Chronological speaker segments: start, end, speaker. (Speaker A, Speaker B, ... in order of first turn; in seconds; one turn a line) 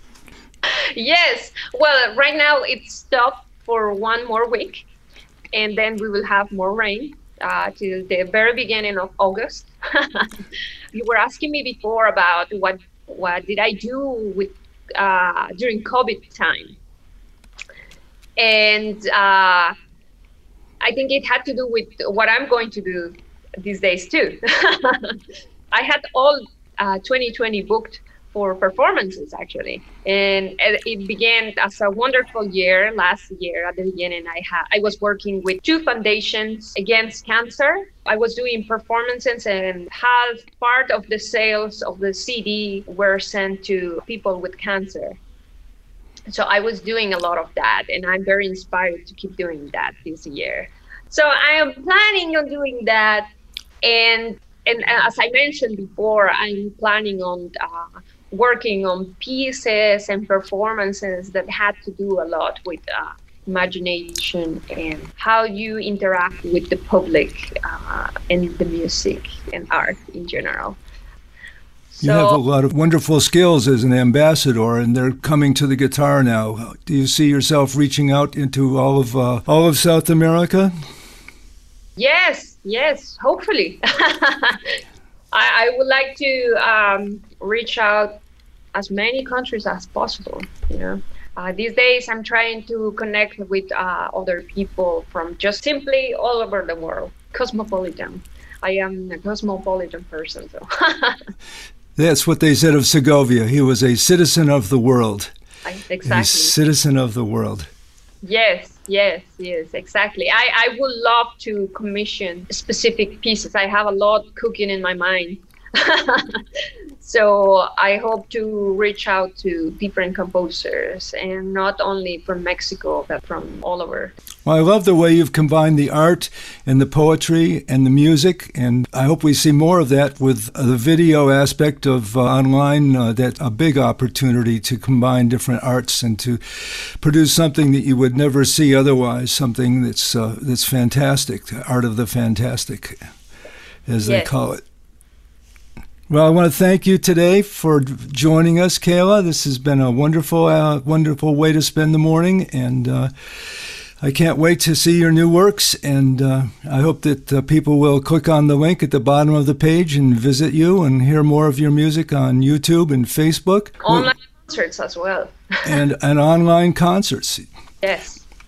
Speaker A: 0.9-4.8
Speaker A: 5.5-10.3
Speaker A: 10.9-16.8
Speaker A: 18.4-19.7
Speaker A: 20.8-25.2
Speaker A: 25.7-45.2
Speaker A: 46.3-53.3
Speaker A: 53.8-70.8
Speaker A: 71.9-72.4
Speaker B: 72.0-80.7
Speaker A: 82.0-84.8
Speaker A: 85.3-88.2
Speaker A: 88.7-101.2
Speaker B: 102.0-105.3
Speaker A: 105.6-106.5
Speaker B: 106.0-107.7
Speaker A: 108.2-116.4
Speaker A: 117.0-124.2
Speaker B: 124.4-143.0
Speaker B: 143.9-144.6
Speaker A: 144.0-144.3
Speaker B: 146.1-164.1
Speaker A: 163.8-165.6
Speaker B: 165.7-167.4
Speaker A: 167.8-168.2